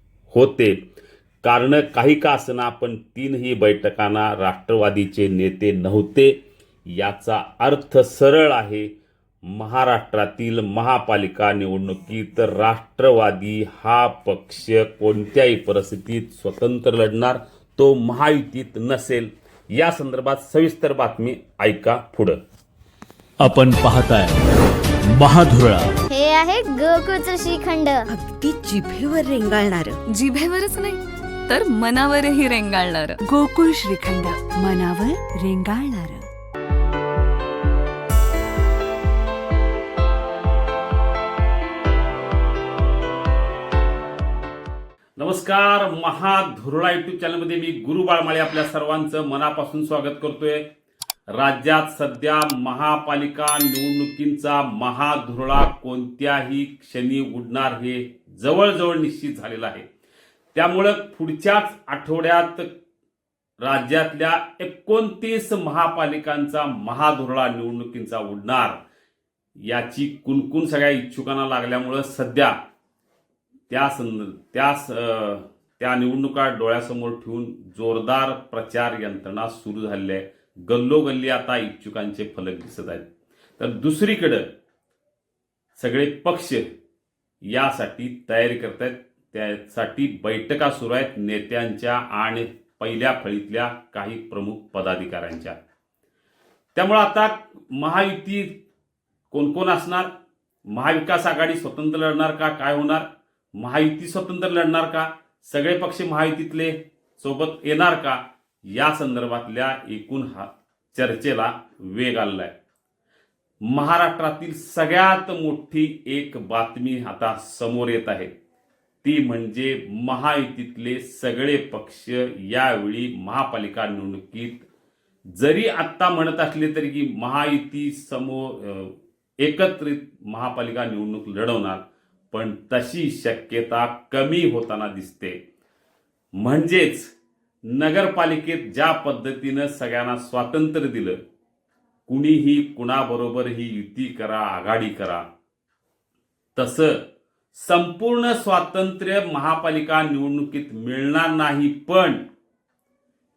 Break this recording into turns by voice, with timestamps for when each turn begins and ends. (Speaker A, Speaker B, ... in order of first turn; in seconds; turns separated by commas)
Speaker A: 0.3-0.8, Speaker A: 1.4-8.9, Speaker A: 9.4-22.4, Speaker B: 23.4-24.3, Speaker B: 25.1-25.9, Speaker C: 26.1-28.1, Speaker D: 28.1-30.0, Speaker B: 29.1-29.9, Speaker E: 30.1-33.2, Speaker D: 33.2-36.2, Speaker A: 45.2-50.6, Speaker A: 51.3-59.8, Speaker A: 60.5-62.7, Speaker A: 63.6-68.8, Speaker A: 69.6-72.5, Speaker A: 73.7-83.0, Speaker A: 83.6-84.5, Speaker A: 85.7-86.6, Speaker A: 87.4-95.5, Speaker A: 96.7-98.5, Speaker A: 99.3-100.1, Speaker A: 100.7-112.5, Speaker A: 113.6-118.3, Speaker A: 119.0-124.6, Speaker A: 125.3-135.4, Speaker A: 136.4-137.1, Speaker A: 137.7-141.2, Speaker A: 142.1-145.2, Speaker A: 146.6-147.0, Speaker A: 147.5-152.2